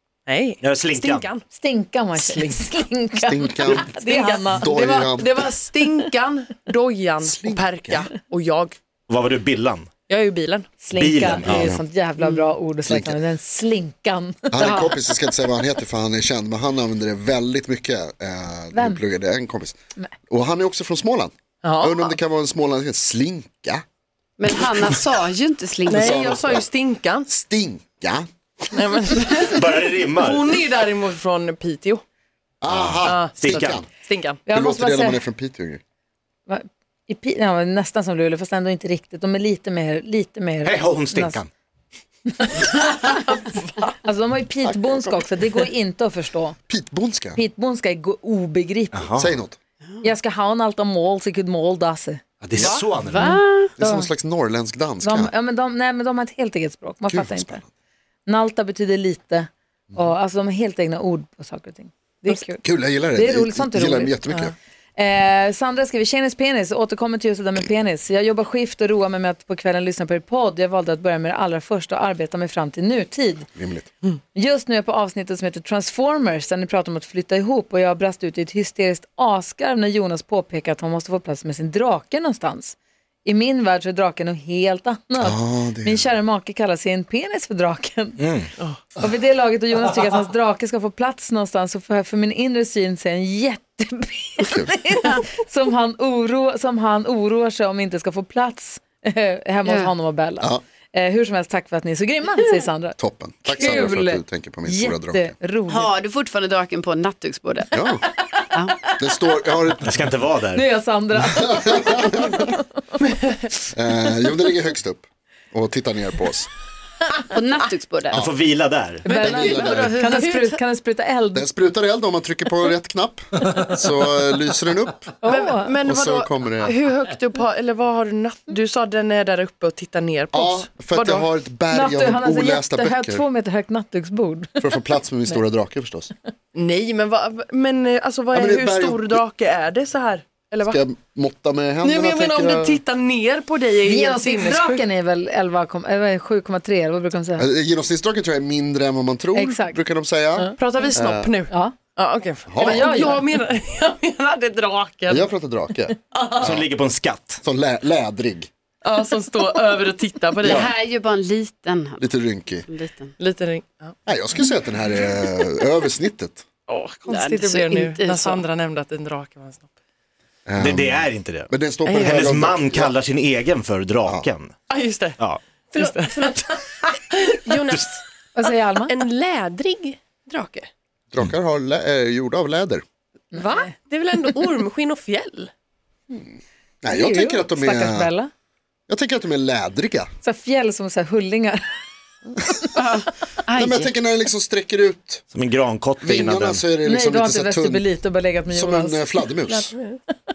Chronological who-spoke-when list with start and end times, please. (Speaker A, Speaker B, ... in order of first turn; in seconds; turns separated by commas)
Speaker A: 0.3-1.4, Speaker B: 0.6-1.3, Speaker C: 1.5-5.1, Speaker D: 3.2-3.9, Speaker A: 3.9-8.7, Speaker D: 4.5-5.4, Speaker D: 7.2-8.1, Speaker B: 9.1-9.9, Speaker A: 10.1-10.8, Speaker C: 10.8-14.9, Speaker B: 10.9-11.7, Speaker D: 11.4-11.8, Speaker D: 12.8-13.2, Speaker D: 14.5-19.8, Speaker C: 18.7-19.0, Speaker D: 20.3-23.8, Speaker A: 21.6-22.1, Speaker E: 24.4-26.4, Speaker A: 25.8-27.3, Speaker D: 25.9-26.7, Speaker D: 27.3-28.3, Speaker A: 28.7-32.0, Speaker B: 29.5-30.6, Speaker D: 32.6-33.9, Speaker B: 32.6-33.8, Speaker A: 33.0-34.4, Speaker C: 34.5-35.2, Speaker D: 34.5-35.8, Speaker C: 36.5-41.4, Speaker B: 40.6-41.5, Speaker C: 42.4-42.7, Speaker A: 42.7-43.9, Speaker C: 44.0-46.6, Speaker D: 44.6-45.2, Speaker D: 46.7-47.4, Speaker C: 47.3-49.1, Speaker B: 48.9-49.3, Speaker D: 49.2-49.6, Speaker C: 50.0-52.2, Speaker B: 52.4-53.2, Speaker A: 52.6-52.8, Speaker E: 53.1-53.7, Speaker C: 53.1-54.1, Speaker D: 53.8-55.3, Speaker C: 55.0-57.6, Speaker D: 57.1-57.6, Speaker C: 58.2-64.2, Speaker D: 62.6-64.5, Speaker C: 65.0-73.5, Speaker D: 73.5-73.9, Speaker C: 74.3-88.2, Speaker D: 85.2-86.1, Speaker B: 88.2-88.5, Speaker C: 89.0-105.9, Speaker D: 94.4-94.7, Speaker E: 99.6-99.9, Speaker D: 103.0-105.3, Speaker E: 105.7-107.7, Speaker D: 107.7-108.1, Speaker E: 108.5-108.8, Speaker D: 109.0-110.0, Speaker B: 109.8-110.7, Speaker C: 110.5-112.7, Speaker D: 111.5-112.4, Speaker D: 113.7-116.5, Speaker E: 117.3-118.2, Speaker D: 118.1-118.4, Speaker B: 118.2-119.1, Speaker C: 119.0-121.5, Speaker A: 119.1-120.6, Speaker D: 119.1-120.0, Speaker D: 121.3-125.1, Speaker C: 125.2-125.7, Speaker A: 125.2-131.3, Speaker D: 125.8-126.7, Speaker D: 130.3-133.2, Speaker C: 131.7-134.7, Speaker D: 134.6-136.1, Speaker A: 136.5-140.8, Speaker D: 138.3-139.2, Speaker D: 140.6-142.8, Speaker A: 141.8-144.8, Speaker C: 143.8-147.4, Speaker D: 147.3-151.3, Speaker C: 149.3-149.8, Speaker A: 150.6-155.3, Speaker C: 151.5-151.7, Speaker D: 152.5-152.9, Speaker C: 152.6-153.2, Speaker D: 155.1-156.7, Speaker B: 156.4-157.4, Speaker D: 157.4-158.5, Speaker A: 158.8-160.7, Speaker E: 160.4-162.2, Speaker D: 160.4-160.7, Speaker D: 162.0-162.7, Speaker E: 162.7-163.1, Speaker A: 163.2-163.9, Speaker D: 164.1-166.4, Speaker A: 166.7-169.7, Speaker E: 167.1-168.4, Speaker D: 170.4-172.9, Speaker B: 170.6-171.5, Speaker A: 171.8-172.2, Speaker B: 172.1-174.5, Speaker A: 174.7-175.2, Speaker F: 175.7-176.9, Speaker A: 175.7-176.6, Speaker F: 177.4-178.0, Speaker C: 178.3-178.9, Speaker F: 178.9-180.7, Speaker D: 181.1-182.8, Speaker C: 183.3-183.7, Speaker F: 183.3-185.5, Speaker D: 186.8-188.1, Speaker C: 186.8-188.3, Speaker D: 188.9-190.1, Speaker C: 190.2-191.8, Speaker E: 192.7-193.9, Speaker D: 193.5-195.2, Speaker B: 195.3-196.6, Speaker D: 196.0-197.8, Speaker C: 196.8-199.7, Speaker D: 198.5-199.7